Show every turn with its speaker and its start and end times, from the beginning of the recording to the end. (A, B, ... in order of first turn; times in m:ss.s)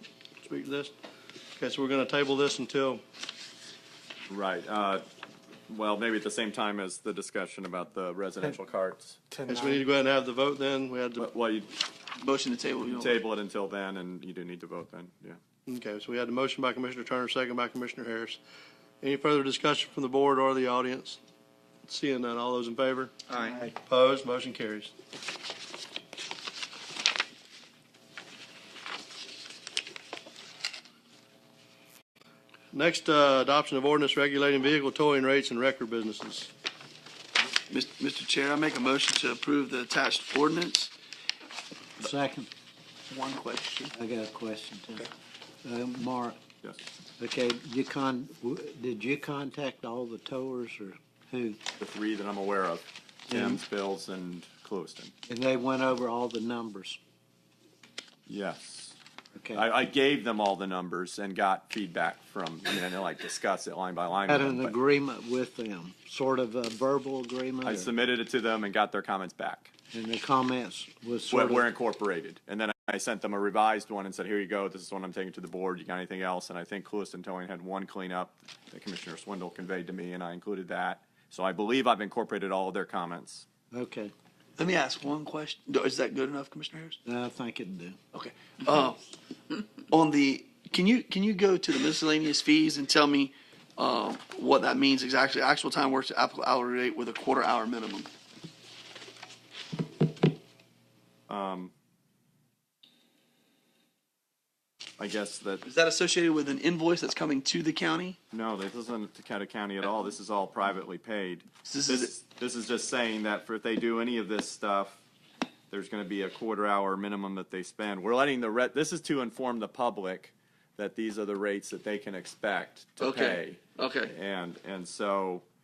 0:00.4-0:00.9 A
0:01.6-0:03.0 A
0:04.3-0:05.0 B
0:05.7-0:09.4 B
0:09.5-0:11.3 A
0:09.5-0:09.8 C
0:11.2-0:11.7 B
0:12.2-0:13.2 D
0:12.9-0:15.4 B
0:15.7-0:18.4 A
0:19.0-0:21.2 A
0:21.9-0:23.1 A
0:23.3-0:23.7 C
0:23.8-0:24.9 A
0:32.7-0:36.5 A
0:37.7-0:40.9 D
0:42.0-0:42.5 C
0:43.1-0:43.9 D
0:43.9-0:45.1 C
0:45.6-0:46.4 C
0:47.2-0:51.6 C
0:51.8-0:55.1 B
0:53.3-0:53.6 C
0:55.3-0:57.0 C
0:58.3-0:59.0 B
0:59.4-0:59.7 C
0:59.5-1:04.8 B
1:04.3-1:07.9 C
1:07.6-1:09.7 B
1:09.9-1:11.7 C
1:11.3-1:23.4 B
1:23.7-1:24.1 C
1:24.6-1:27.0 D
1:27.0-1:28.0 C
1:28.1-1:29.0 D
1:29.9-1:38.1 D
1:41.3-1:41.7 B
1:45.0-1:45.6 B
1:45.6-1:48.2 D
1:48.3-1:55.0 B
1:51.6-1:52.1 D
1:55.7-2:05.4 B
2:03.0-2:04.1 D